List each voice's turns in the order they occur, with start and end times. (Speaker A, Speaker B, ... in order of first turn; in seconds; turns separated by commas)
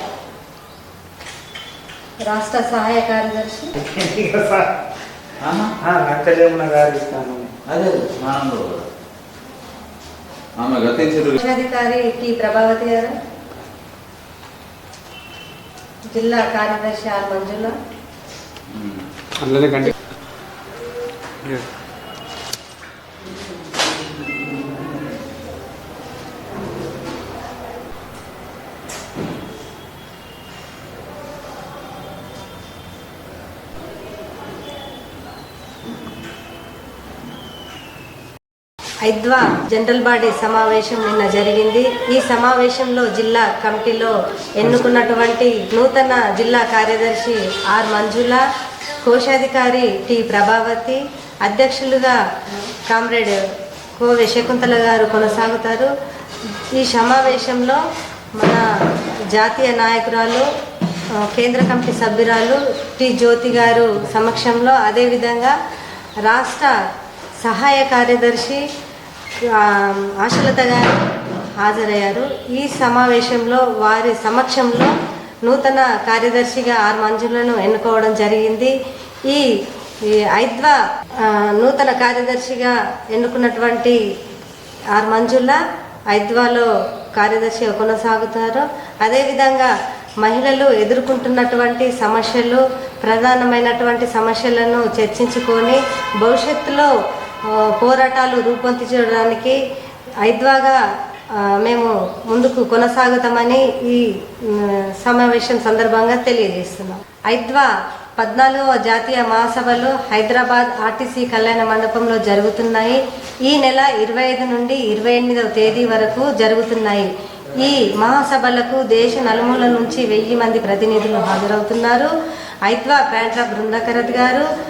Speaker A: 2.2-3.7, Speaker B: 3.8-4.7, Speaker C: 5.4-5.7, Speaker B: 5.8-7.5, Speaker C: 7.7-8.8, Speaker C: 10.6-11.4, Speaker A: 11.4-13.2, Speaker A: 16.1-17.7, Speaker C: 18.7-19.0, Speaker B: 19.4-19.9, Speaker A: 39.0-48.4, Speaker A: 49.0-52.2, Speaker A: 52.9-53.4, Speaker A: 54.0-55.9, Speaker A: 56.7-57.8, Speaker A: 58.4-60.5, Speaker A: 61.2-65.5, Speaker A: 66.2-66.7, Speaker A: 67.4-68.6, Speaker A: 69.4-71.0, Speaker A: 71.6-74.9, Speaker A: 75.4-84.0, Speaker A: 84.9-85.6, Speaker A: 86.1-96.9, Speaker A: 97.5-99.6, Speaker A: 100.2-100.8, Speaker A: 101.3-122.1, Speaker A: 122.7-124.5